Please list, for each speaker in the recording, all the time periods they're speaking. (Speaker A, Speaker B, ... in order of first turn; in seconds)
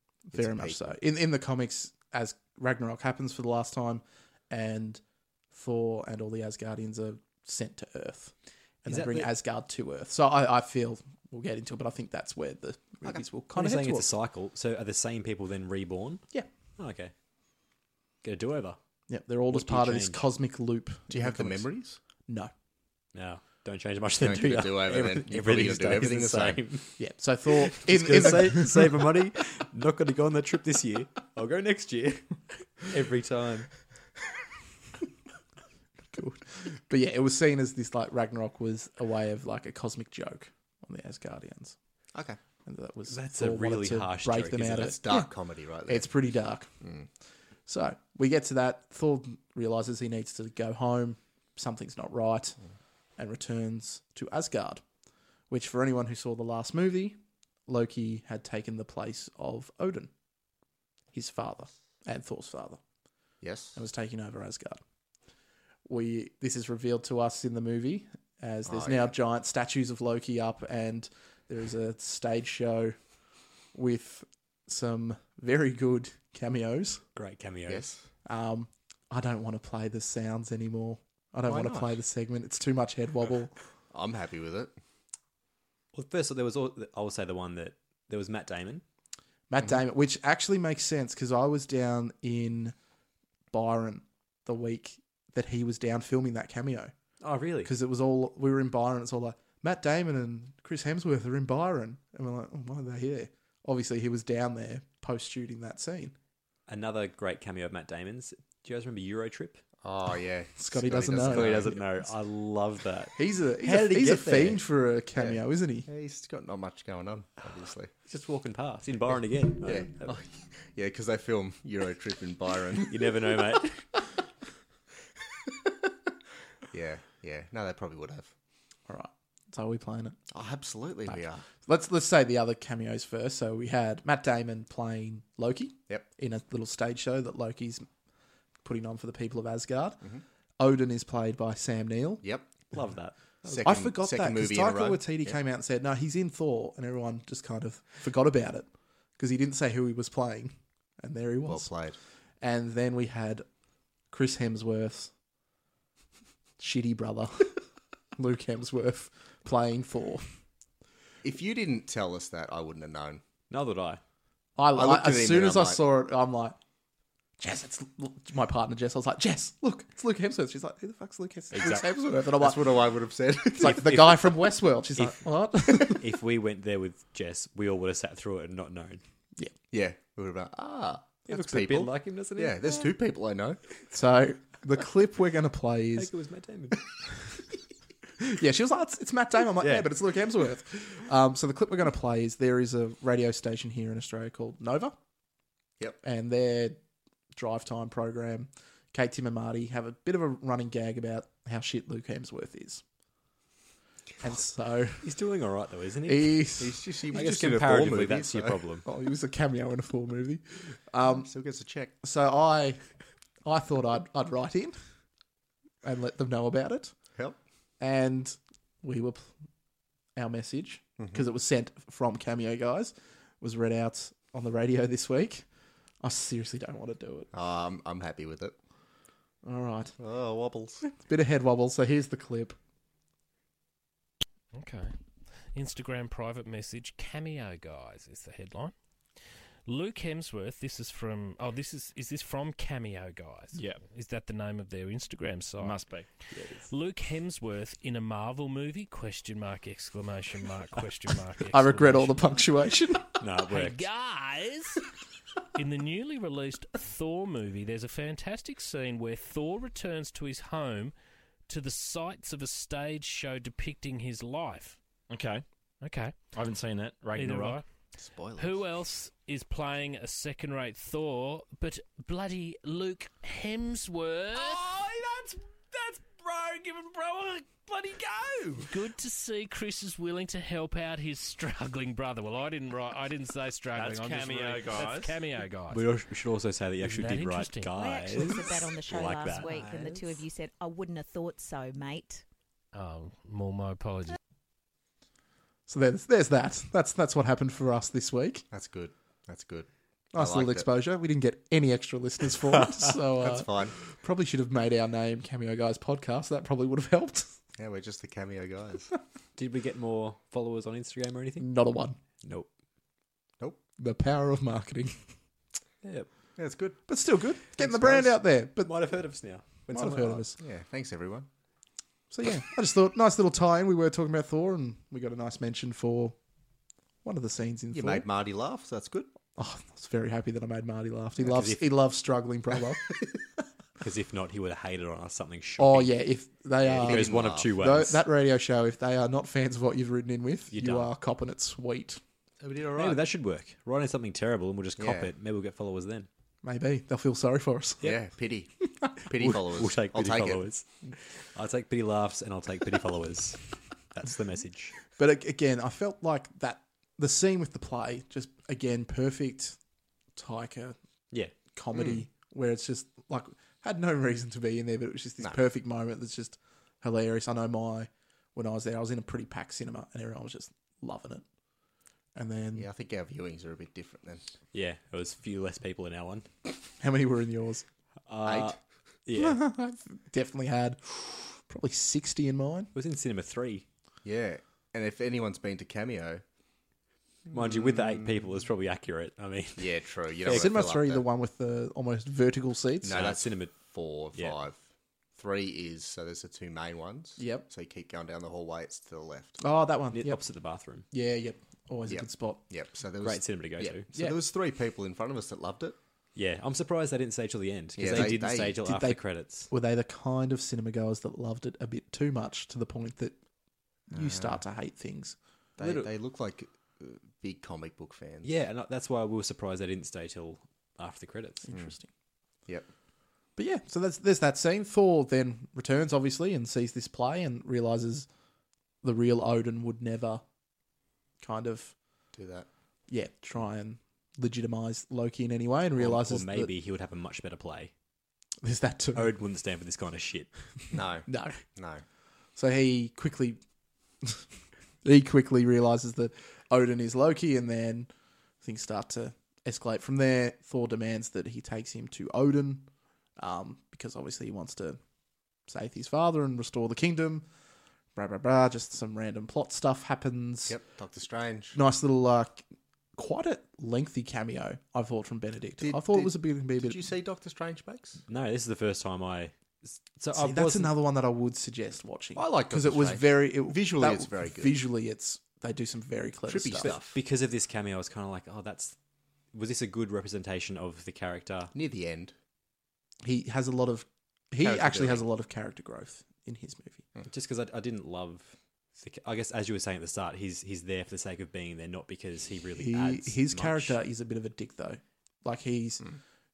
Speaker A: 0.3-8.3, 8.8-14.1, 19.1-21.7, 22.2-22.5, 27.0-28.9, 36.1-41.8, 42.6-45.3, 45.9-46.7, 47.6-52.6, 53.2-54.8, 55.5-60.1, 61.1-62.8, 63.7-64.8, 65.8-73.0, 73.7-77.0, 78.2-83.5, 89.5-92.7, 93.5-96.9, 97.6-106.1, 110.6-112.0, 113.1-115.9, 128.9-130.2, 131.1-137.9, 138.6-140.0, 140.6-142.2, 143.6-151.7, 152.4-153.4, 154.1-155.1, 156.6-157.6, 158.2-160.3, 164.6-166.6, 167.4-172.7, 173.5-176.0, 183.9-186.1, 188.2-194.9, 196.0-196.8, 197.3-202.8, 204.2-205.1, 206.1-206.8, 208.8-211.3, 212.0-212.8, 213.4-214.8, 215.8-216.9, 217.8-219.3, 220.2-225.4, 226.0-227.3, 229.4-230.0, 230.8-232.6, 251.5-253.2, 295.7-298.4, 300.1-307.3, 311.4-312.0, 313.8-315.0, 316.9-318.8, 319.7-320.4, 322.1-326.1, 327.0-328.1, 329.4-332.9, 335.6-342.0, 346.4-347.9, 354.9-359.6, 360.1-360.8, 361.4-371.2, 372.1-372.7, 376.8-377.6, 379.1-382.7, 390.2-392.9, 397.2-397.4, 399.4-400.2, 400.9-402.4, 407.9-413.2, 413.9-415.1, 421.4-421.9, 423.4-428.1, 428.8-430.2, 431.2-431.7, 432.9-436.5, 438.4-439.1, 441.1-441.4, 442.4-443.4, 444.8-447.9, 448.4-454.8, 455.5-457.3, 457.9-460.6, 461.5-462.4, 462.9-466.8, 470.1-476.7, 483.0-486.8, 492.6-495.9
Speaker B: 0.3-0.9, 21.1-22.0, 24.2-26.6, 42.1-42.4, 44.8-46.1, 46.8-47.1, 63.4-63.8, 68.7-69.1, 77.7-78.0, 81.4-82.0, 83.9-84.7, 109.8-111.7, 115.2-117.9, 119.6-122.9, 126.7-128.3, 130.3-131.4, 142.2-142.5, 143.4-145.3, 151.4-152.0, 161.2-163.2, 164.8-165.8, 172.2-174.1, 179.7-183.6, 206.6-208.6, 211.1-211.9, 227.3-228.5, 230.0-230.8, 267.9-268.6, 288.9-290.2, 298.5-300.7, 303.2-303.8, 307.6-308.9, 316.4-316.8, 320.4-321.3, 327.7-329.1, 336.8-337.5, 342.4-343.0, 344.8-345.1, 347.8-350.4, 361.7-362.0, 372.5-374.2, 378.2-378.5, 384.0-386.2, 387.3-388.0, 389.6-391.0, 392.8-394.6, 395.2-399.4, 401.9-405.8, 407.8-408.6, 413.9-414.4, 415.6-418.3, 432.1-432.5, 440.7-441.8, 460.5-461.6, 465.6-468.0, 472.1-474.5, 476.3-477.0, 481.5-482.1, 484.4-485.0
Speaker C: 8.8-9.3, 13.5-17.1, 18.2-18.8, 19.5-20.2, 23.1-26.9, 27.5-33.7, 43.1-45.0, 77.1-77.9, 85.9-88.8, 97.2-97.7, 106.7-109.6, 111.2-114.6, 118.1-120.1, 122.9-123.8, 142.7-143.7, 163.5-164.0, 171.5-171.8, 173.6-174.3, 175.0-179.0, 181.3-182.9, 185.9-187.0, 189.6-189.9, 205.0-208.8, 246.3-246.7, 253.2-253.8, 285.7-289.6, 309.4-311.5, 312.2-312.5, 315.8-316.1, 317.6-320.2, 331.2-331.6, 333.8-335.9, 336.6-338.0, 340.5-340.9, 342.8-346.1, 349.2-354.8, 374.5-376.3, 378.1-379.4, 382.7-383.6, 387.3-389.7, 392.8-393.6, 399.9-400.9, 403.0-403.9, 406.1-409.5, 415.6-415.9, 418.2-421.5, 435.8-437.7, 438.9-440.4, 468.1-470.7, 476.6-478.7, 479.3-481.5, 487.1-493.8
Speaker D: 234.5-234.9, 235.5-238.7, 239.7-252.4, 253.4-254.9, 255.5-260.9, 261.5-264.8, 265.8-266.3, 267.1-267.6, 268.4-285.8, 286.8-288.5, 292.7-294.2
Speaker E: 243.5-243.8, 245.6-246.1, 265.1-265.4, 266.3-267.6, 283.7-285.2
Speaker F: 287.7-292.2